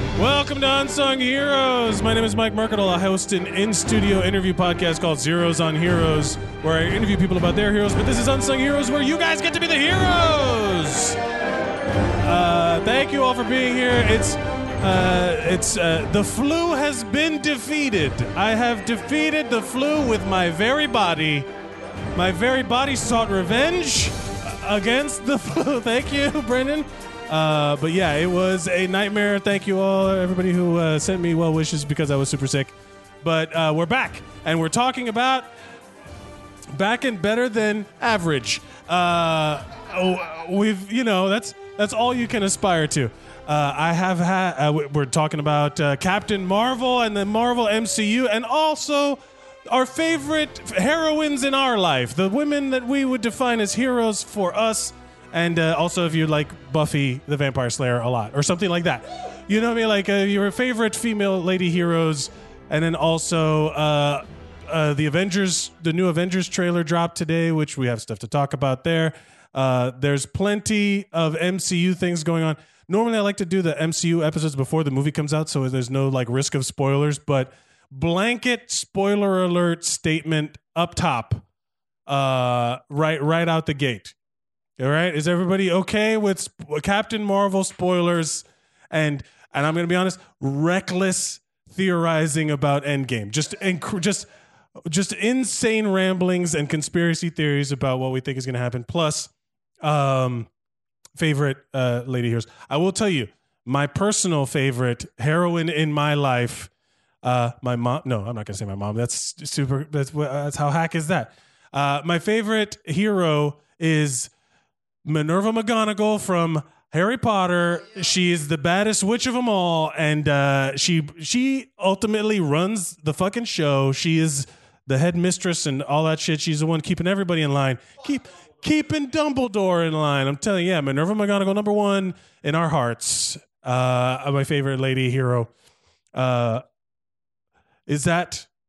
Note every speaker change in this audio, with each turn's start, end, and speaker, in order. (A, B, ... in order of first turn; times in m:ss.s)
0:00.2-0:11.2 A
0:12.2-0:21.5 A
0:22.1-0:35.5 A
0:36.7-1:21.4 A
1:22.0-1:24.1 A
1:24.8-1:34.3 A
1:34.8-1:39.3 A
1:39.8-1:40.5 A
1:41.2-1:46.7 A
1:47.2-1:54.3 A
1:55.0-2:15.5 A
2:16.1-2:16.6 A
2:17.9-2:18.5 A